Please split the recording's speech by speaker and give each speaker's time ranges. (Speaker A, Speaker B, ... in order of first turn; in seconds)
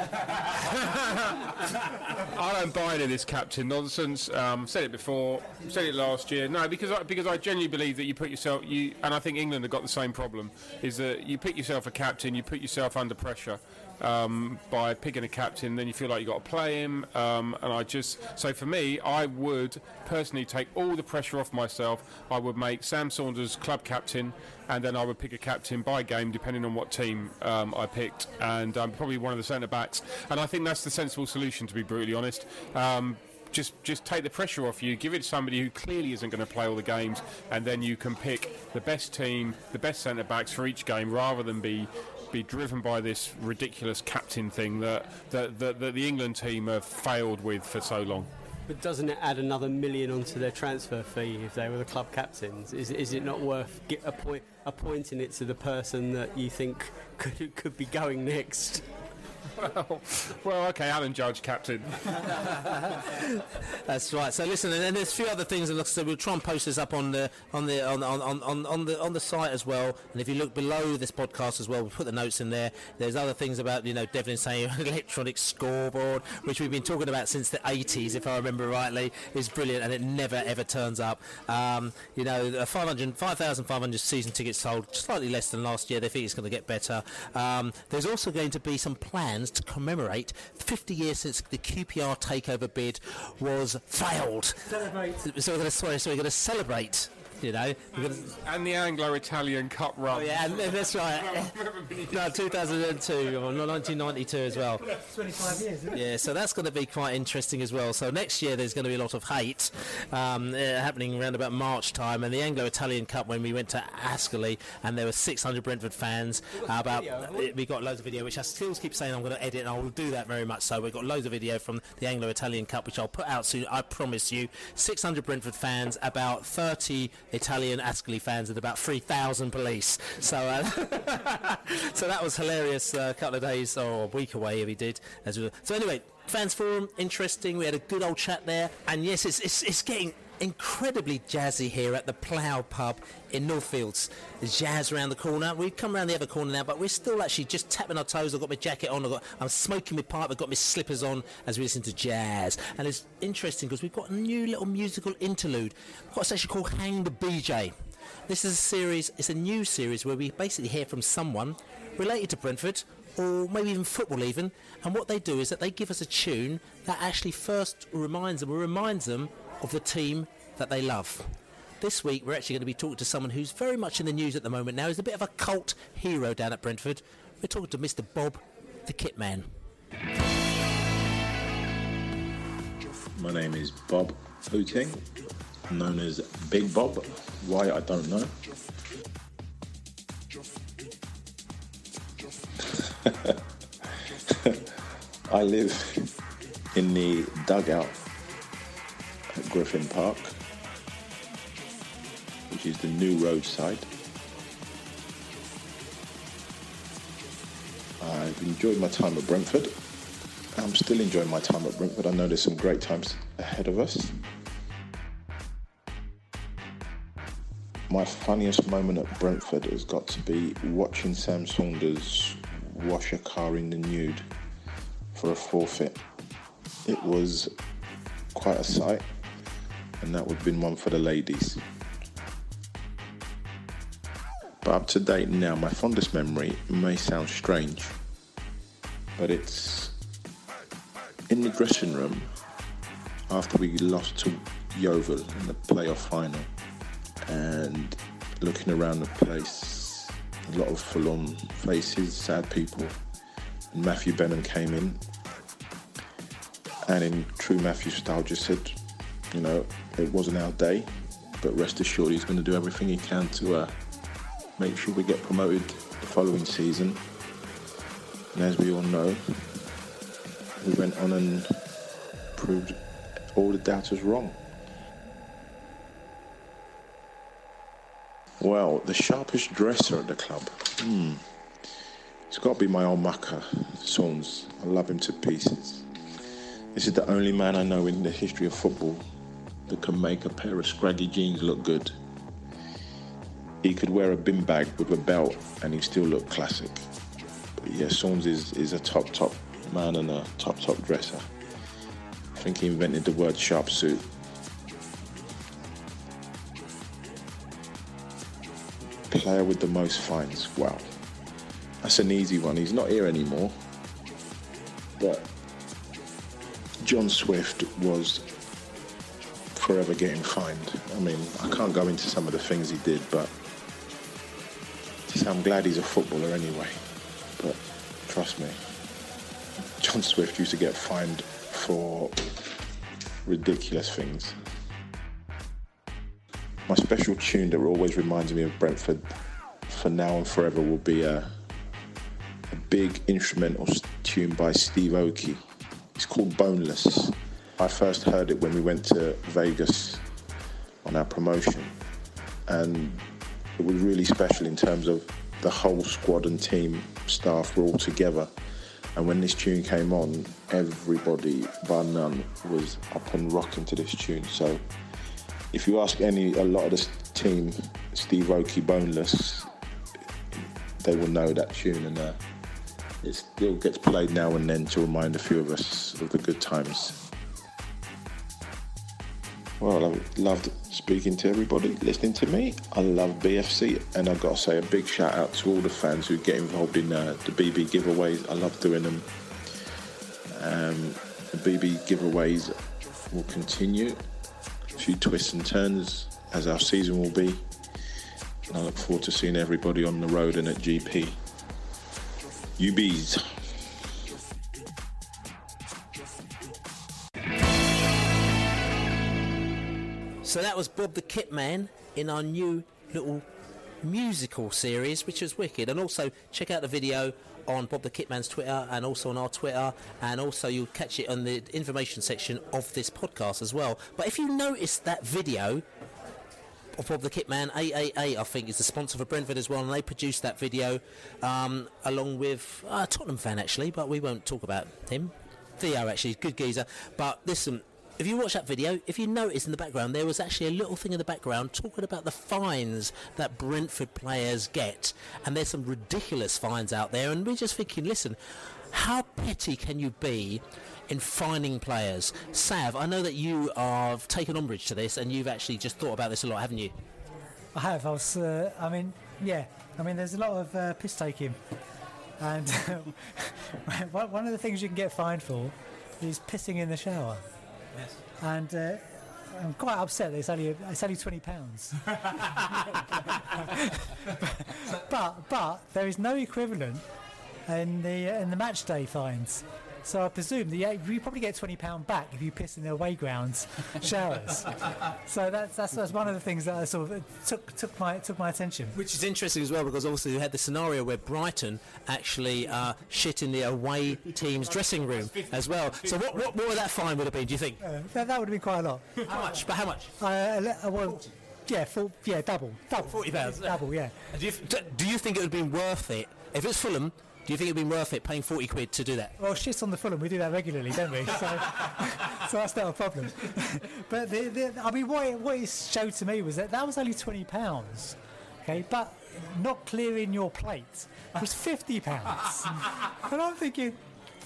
Speaker A: 0.3-48.3, 59.6-62.7, 98.3-102.8
Speaker B: 48.7-58.9, 116.6-117.5
Speaker C: 63.7-94.7, 95.2-98.3, 100.1-101.5, 102.1-104.8, 105.9-157.7, 158.3-179.5, 410.2-413.2, 413.8-425.6, 426.8-448.2, 448.7-456.8, 488.8-497.6, 499.0-499.9, 502.8-503.6, 504.1-509.1
Speaker D: 94.7-95.2, 104.9-106.0, 457.5-461.4, 462.2-467.2, 468.2-472.0, 472.6-476.8, 477.5-488.8, 497.6-499.1, 500.0-504.0, 509.2-523.8
Speaker E: 183.2-185.1, 185.7-188.3, 193.1-193.3, 194.3-194.6, 195.3-196.1, 196.7-198.0, 199.3-200.3, 202.5-203.9, 208.0-209.7, 210.6-214.2, 217.9-224.3, 225.1-226.0, 226.9-227.5, 228.3-229.1, 230.0-231.6, 234.6-237.9, 239.2-239.9, 241.3-242.3, 243.3-246.5, 247.3-252.9, 253.7-255.0, 256.9-258.8, 259.3-263.7, 264.6-267.0, 268.3-269.6, 270.6-271.5, 272.4-272.8, 273.4-274.4, 278.4-281.2, 282.3-285.9, 286.7-289.0, 289.7-291.9, 293.6-296.8, 297.6-301.2, 302.4-304.1, 309.1-310.9, 311.8-313.5, 315.0-315.3, 316.8-318.3, 319.5-323.3, 325.1-326.8, 327.4-328.6, 329.8-332.3, 333.2-334.3, 336.7-339.1, 339.7-341.3, 342.5-345.4, 346.0-350.0, 350.8-351.7, 352.5-353.0, 353.6-358.3, 359.0-364.6, 365.5-369.5, 370.3-372.2, 373.0-377.0, 379.6-389.1, 390.3-392.5, 393.1-394.0, 394.8-397.4, 398.5-401.2, 402.6-403.5